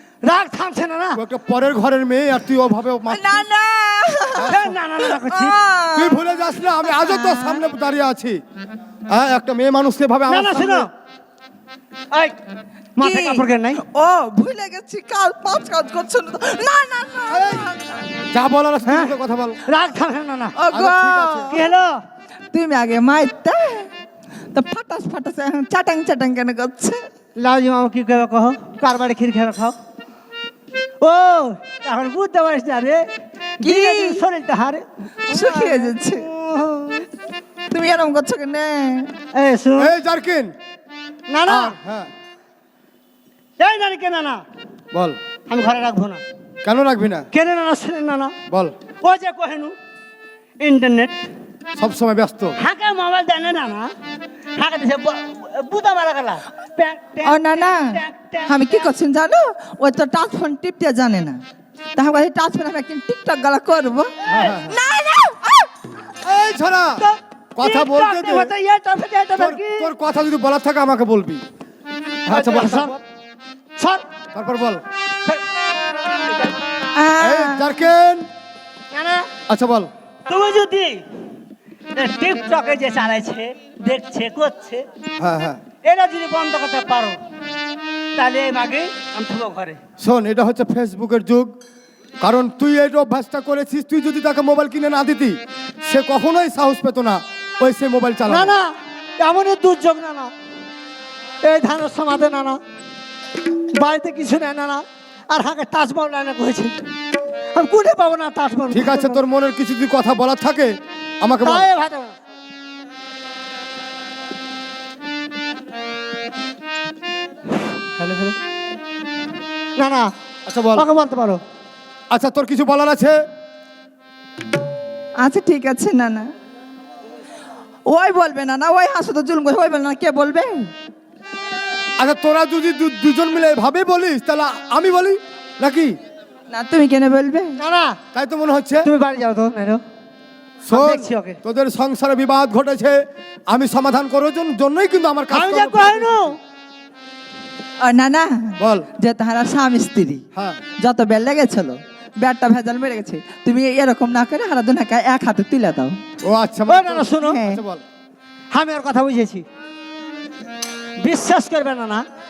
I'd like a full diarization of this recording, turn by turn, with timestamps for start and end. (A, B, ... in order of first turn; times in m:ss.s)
0:00.2-0:01.2 A
0:01.2-0:03.4 B
0:03.1-0:06.2 C
0:04.4-0:05.6 A
0:04.4-0:04.7 B
0:06.0-0:08.4 B
0:06.8-0:07.6 C
0:09.1-0:10.9 B
0:10.3-0:10.9 A
0:12.1-0:12.4 A
0:13.0-0:13.8 A
0:13.0-0:18.1 C
0:17.3-0:17.6 B
0:18.3-0:19.6 B
0:18.8-0:19.1 A
0:19.7-0:20.6 A
0:20.6-0:21.6 C
0:20.7-0:21.6 B
0:21.5-0:22.0 A
0:22.5-0:23.9 C
0:24.5-0:27.0 C
0:27.4-0:29.8 A
0:31.0-0:33.1 A
0:33.6-0:37.0 A
0:33.6-0:34.2 C
0:35.3-0:36.2 C
0:37.7-0:39.1 C
0:39.3-0:39.9 A
0:39.8-0:40.5 B
0:41.3-0:41.8 A
0:41.5-0:42.1 B
0:43.6-0:44.4 A
0:44.9-0:45.2 B
0:45.5-0:46.2 A
0:46.6-0:47.3 B
0:47.3-0:48.3 A
0:48.5-0:48.7 B
0:49.0-0:49.7 A
0:50.6-0:51.2 A
0:51.8-0:52.6 B
0:52.6-0:53.9 A
0:54.6-0:58.9 A
0:57.2-1:01.4 C
1:02.0-1:05.7 C
1:04.2-1:04.6 A
1:04.2-1:04.8 B
1:06.2-1:07.0 B
1:07.0-1:09.9 A
1:07.6-1:08.5 B
1:09.4-1:11.4 B
1:12.2-1:12.9 B
1:12.2-1:13.0 A
1:13.8-1:14.0 A
1:14.3-1:14.8 B
1:16.0-1:16.5 A
1:16.9-1:17.8 C
1:17.2-1:18.3 B
1:18.9-1:19.3 A
1:19.5-1:19.9 B
1:20.3-1:21.0 A
1:21.9-1:24.8 A
1:25.2-1:25.6 B
1:25.8-1:27.2 A
1:28.2-1:29.8 A
1:30.0-1:31.5 B
1:32.2-1:38.6 B
1:38.3-1:40.3 A
1:41.4-1:42.6 A
1:43.7-1:46.8 A
1:47.5-1:49.2 A
1:48.7-1:51.7 B
1:51.4-1:52.1 A
1:57.8-1:58.4 A
1:59.8-2:00.1 A
2:00.4-2:00.8 B
2:00.7-2:01.4 A
2:02.1-2:03.2 B
2:05.2-2:06.3 C
2:07.9-2:10.7 C
2:12.0-2:16.0 B
2:16.5-2:17.6 C
2:17.6-2:18.0 A
2:18.1-2:18.9 B
2:18.8-2:19.8 A
2:20.7-2:21.4 A
2:20.7-2:26.3 B
2:25.3-2:26.4 A
2:27.8-2:30.2 C
2:28.6-2:28.9 B
2:30.3-2:30.6 B
2:30.8-2:36.0 C
2:36.2-2:37.8 B
2:36.7-2:37.4 A
2:37.2-2:37.6 C
2:38.5-2:39.4 A
2:41.0-2:42.0 A